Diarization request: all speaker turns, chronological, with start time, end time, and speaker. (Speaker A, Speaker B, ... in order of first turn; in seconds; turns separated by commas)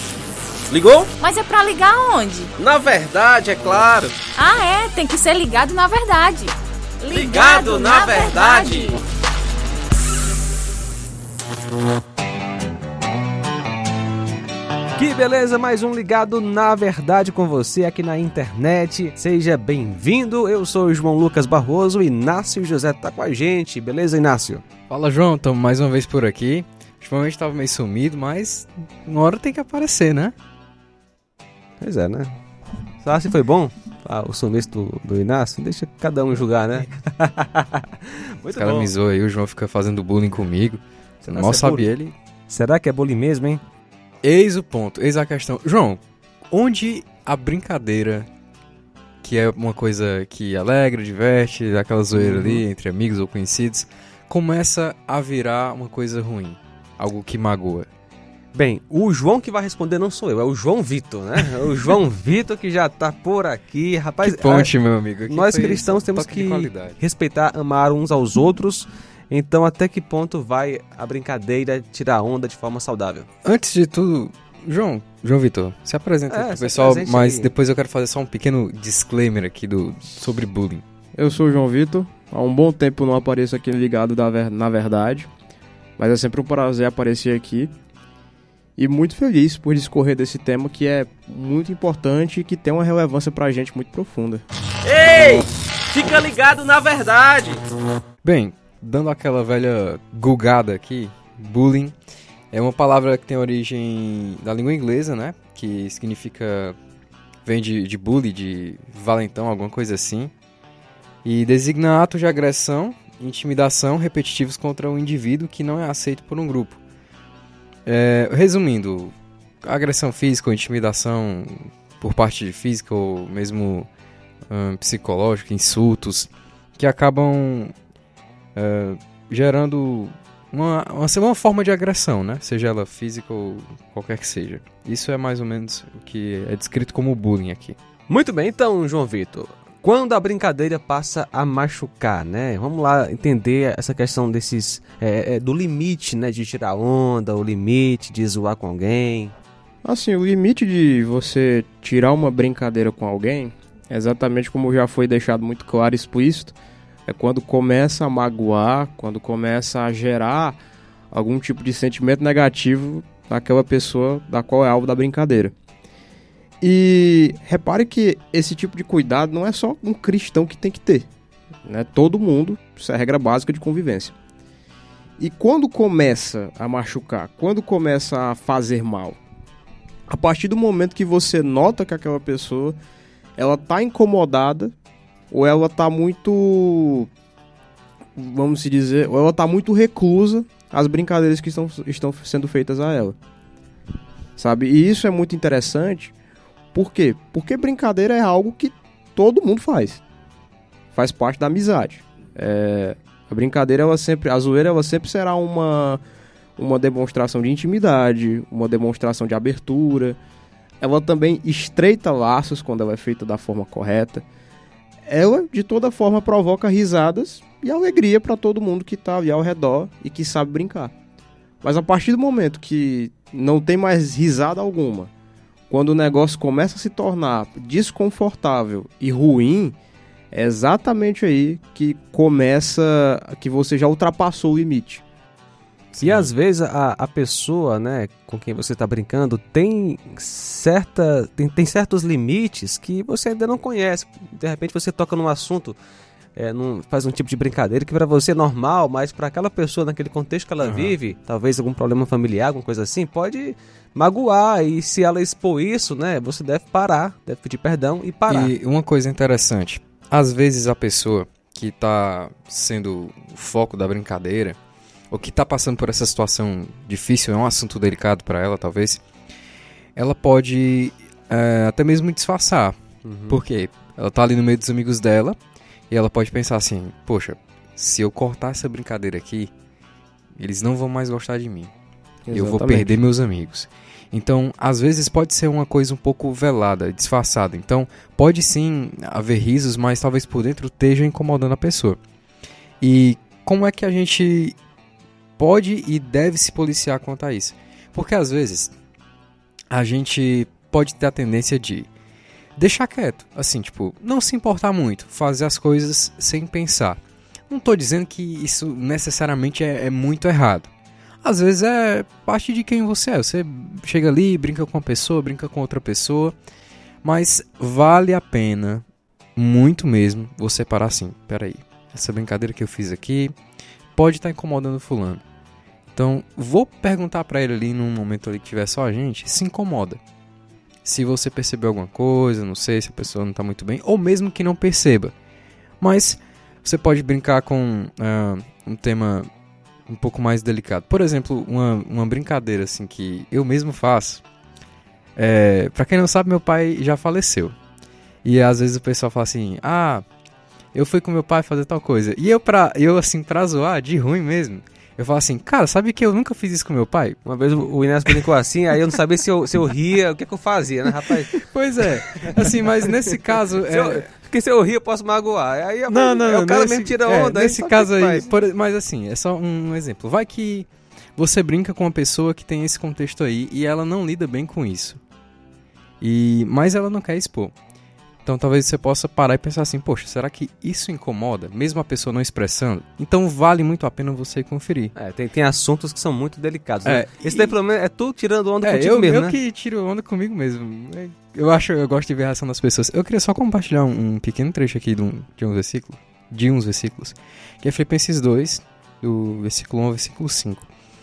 Speaker A: 0.7-1.1, Speaker B: 1.2-2.5, Speaker A: 2.6-4.2, Speaker C: 2.7-3.1, Speaker B: 4.3-9.0, Speaker A: 7.1-7.6, Speaker C: 7.3-9.0, Speaker C: 14.9-24.6, Speaker D: 24.9-30.3, Speaker C: 31.8-32.3, Speaker C: 33.0-38.9, Speaker D: 38.5-42.1, Speaker C: 41.2-41.9, Speaker C: 42.5-43.6, Speaker D: 44.2-48.3, Speaker D: 49.2-57.9, Speaker C: 52.1-52.6, Speaker C: 58.5-64.7, Speaker D: 64.2-67.0, Speaker C: 65.3-73.3, Speaker D: 73.4-80.8, Speaker C: 76.3-77.5, Speaker E: 81.1-85.3, Speaker E: 86.0-87.7, Speaker E: 88.8-94.4, Speaker A: 94.8-97.6, Speaker D: 98.2-101.9, Speaker D: 102.5-106.8, Speaker D: 107.4-110.3, Speaker D: 111.2-116.8, Speaker D: 117.8-123.9, Speaker D: 124.5-127.7, Speaker D: 128.6-137.8, Speaker C: 138.1-149.3, Speaker E: 149.8-156.6, Speaker E: 157.1-160.6, Speaker E: 161.1-165.5, Speaker E: 166.6-171.1, Speaker E: 171.6-174.1, Speaker E: 175.2-179.2, Speaker E: 180.1-182.8, Speaker E: 183.3-184.7, Speaker E: 185.3-187.1, Speaker E: 188.2-193.2, Speaker E: 194.4-196.1, Speaker E: 196.7-200.0, Speaker E: 200.9-206.0, Speaker E: 206.6-210.2, Speaker E: 210.8-214.2, Speaker E: 215.1-220.9, Speaker E: 221.6-225.1, Speaker E: 225.7-229.8, Speaker E: 230.3-235.0, Speaker C: 236.0-245.8, Speaker C: 246.3-258.5, Speaker D: 250.6-250.9, Speaker D: 258.3-264.6, Speaker D: 265.1-269.0, Speaker D: 269.9-272.8, Speaker C: 273.0-273.4, Speaker D: 273.3-275.4, Speaker D: 275.9-279.5, Speaker D: 280.4-281.7, Speaker E: 282.2-283.0, Speaker D: 282.3-292.0, Speaker D: 292.8-294.6, Speaker D: 295.4-298.7, Speaker D: 299.7-301.9, Speaker D: 302.6-310.7, Speaker D: 311.2-316.4, Speaker D: 317.0-323.3, Speaker D: 323.9-325.2, Speaker D: 325.9-330.0, Speaker D: 330.8-335.1, Speaker D: 335.8-339.3, Speaker D: 339.9-344.2, Speaker D: 345.2-347.5, Speaker D: 348.2-350.0, Speaker D: 350.7-357.2, Speaker C: 357.2-368.3, Speaker D: 361.4-364.1, Speaker D: 365.9-375.0, Speaker D: 376.0-377.5, Speaker D: 378.2-384.9, Speaker C: 384.9-389.4, Speaker D: 386.8-387.5, Speaker D: 388.6-400.7